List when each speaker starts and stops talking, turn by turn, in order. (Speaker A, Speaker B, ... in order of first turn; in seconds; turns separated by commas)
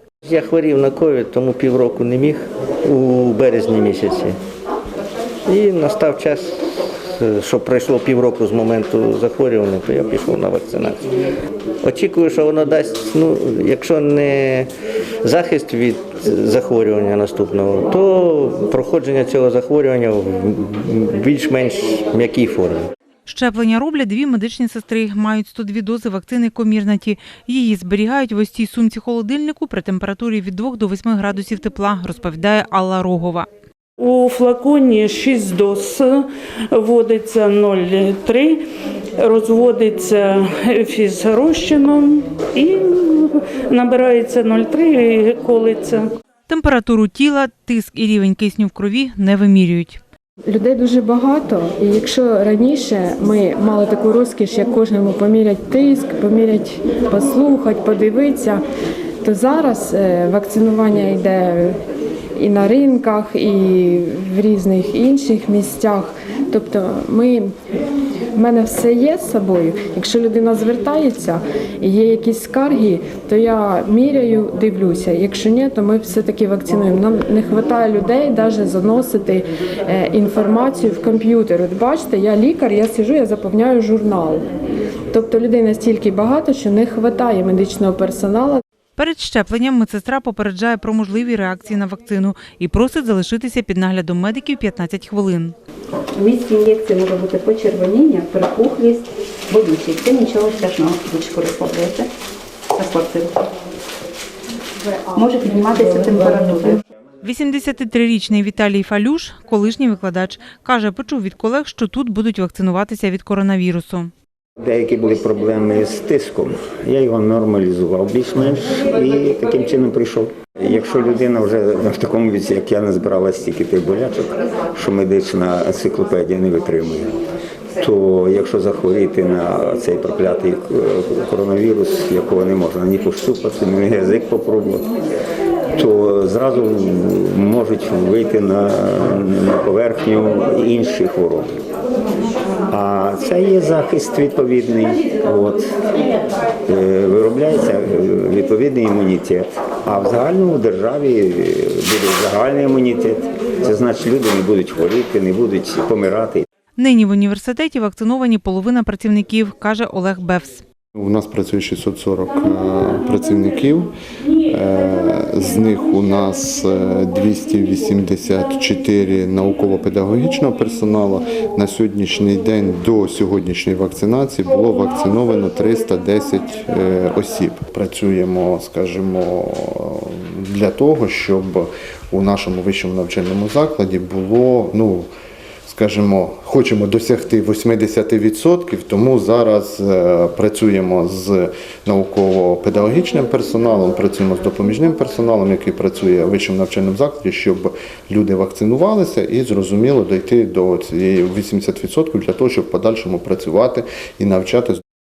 Speaker A: 0.2-4.4, Speaker A: 5.5-6.6, Speaker A: 7.2-11.0, Speaker A: 11.8-14.7, Speaker A: 15.2-22.9, Speaker B: 23.3-33.5, Speaker C: 34.0-38.6, Speaker C: 39.2-46.1, Speaker B: 46.5-50.0, Speaker D: 50.5-58.6, Speaker D: 59.2-61.8, Speaker D: 62.4-67.5, Speaker D: 68.3-84.4, Speaker D: 85.1-88.6, Speaker B: 89.0-95.5, Speaker E: 96.1-102.1, Speaker E: 102.8-103.4, Speaker E: 105.1-106.8, Speaker B: 107.2-114.1, Speaker F: 114.6-127.1, Speaker F: 127.8-134.9, Speaker F: 135.8-141.5, Speaker F: 142.7-145.7, Speaker F: 146.7-156.4, Speaker B: 156.8-160.6, Speaker G: 160.9-185.1, Speaker G: 185.7-204.8